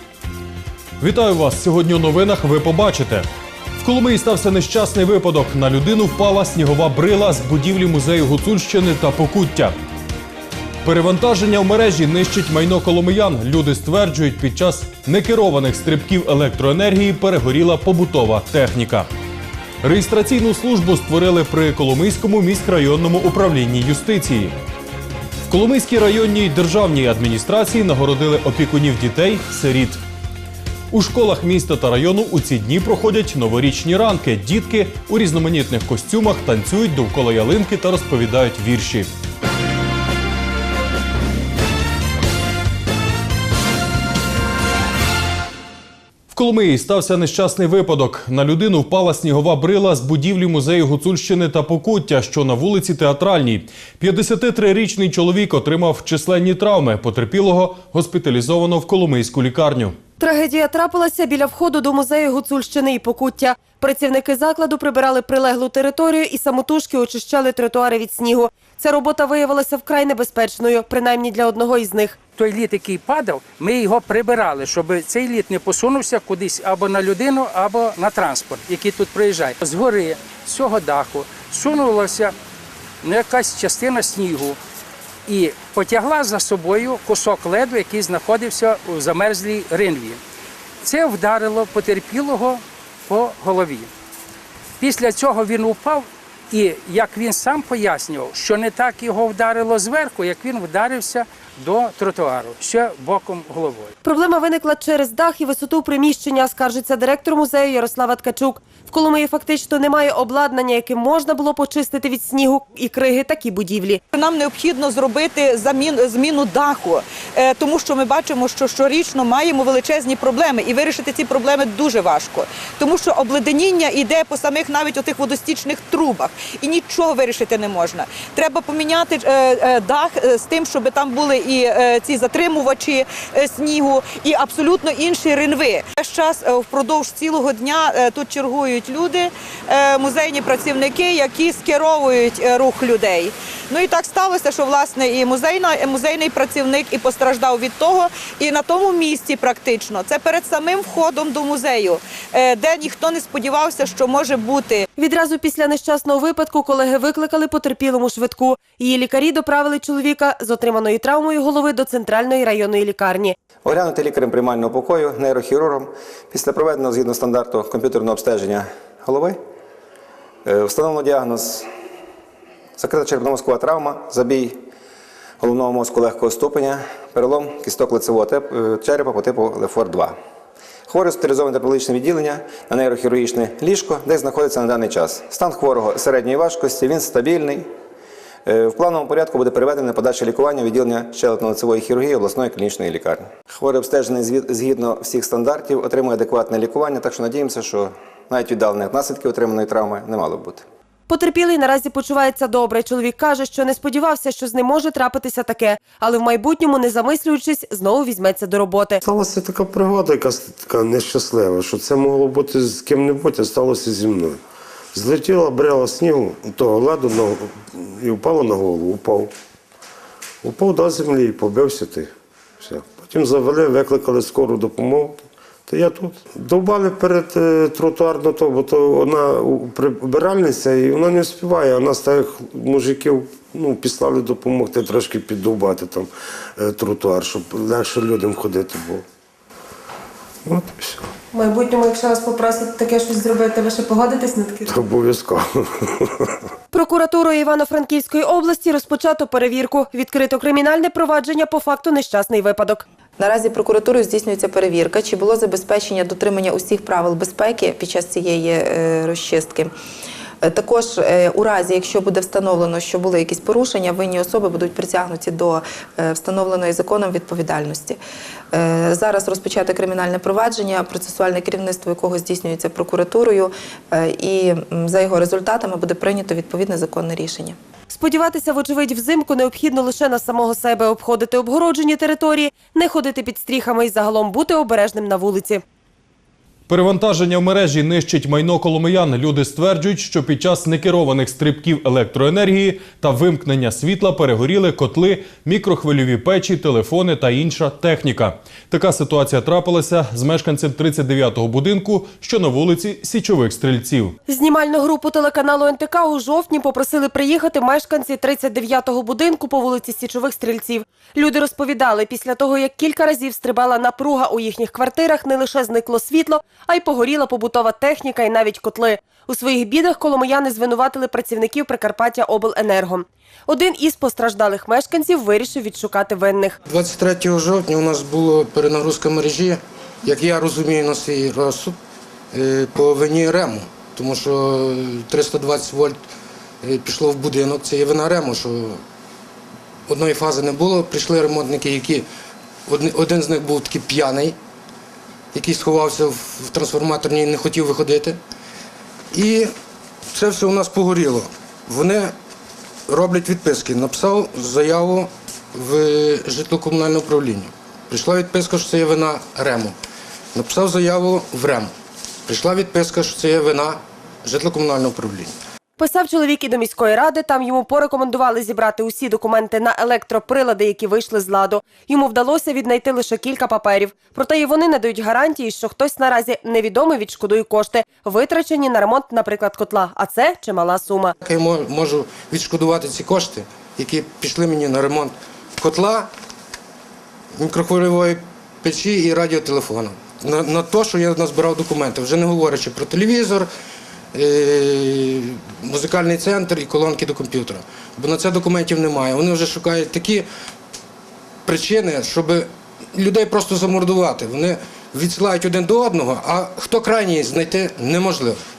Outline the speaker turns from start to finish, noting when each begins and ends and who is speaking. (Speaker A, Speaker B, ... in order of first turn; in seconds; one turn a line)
Speaker A: 1.0-3.3
Speaker A: 3.8-9.7
Speaker A: 10.8-19.1
Speaker A: 19.8-24.6
Speaker A: 25.4-30.0
Speaker A: 30.9-39.1
Speaker A: 46.3-60.0
Speaker B: 60.2-72.2
Speaker C: 72.3-82.3
Speaker C: 83.0-84.6
Speaker C: 85.3-90.2
Speaker C: 90.8-93.9
Speaker C: 94.8-103.9
Speaker B: 104.0-114.0
Speaker D: 114.1-154.8
Speaker B: 155.0-163.3
Speaker E: 163.6-169.4
Speaker E: 170.4-171.7
Speaker E: 172.8-174.6
Speaker E: 175.4-180.2
Speaker E: 180.9-187.7
Speaker E: 188.4-200.6
Speaker B: 201.1-209.0
Speaker F: 209.0-214.4
Speaker F: 214.9-219.3
Speaker F: 220.4-222.1
Speaker F: 222.6-239.0
Speaker F: 240.4-241.0
Speaker B: 241.3-244.7
Speaker F: 244.6-246.3
Speaker B: 246.7-252.8
Speaker G: 253.2-259.7
Speaker G: 260.4-268.0
Speaker G: 268.5-277.6
Speaker B: 277.9-285.6
Speaker A: 286.7-304.2
Speaker B: 304.3-326.5
Speaker H: 326.7-331.8
Speaker H: 332.3-336.0
Speaker H: 336.6-338.8
Speaker H: 339.9-342.1
Speaker H: 342.7-344.4
Speaker H: 345.3-348.2
Speaker H: 349.1-349.5
Speaker H: 350.1-352.1
Speaker H: 352.9-359.7
Speaker H: 360.3-361.7
Speaker H: 362.3-365.3
Speaker B: 365.8-381.1
Speaker H: 381.2-386.1
Speaker H: 387.4-393.5
Speaker H: 394.1-400.2
Speaker H: 401.4-408.4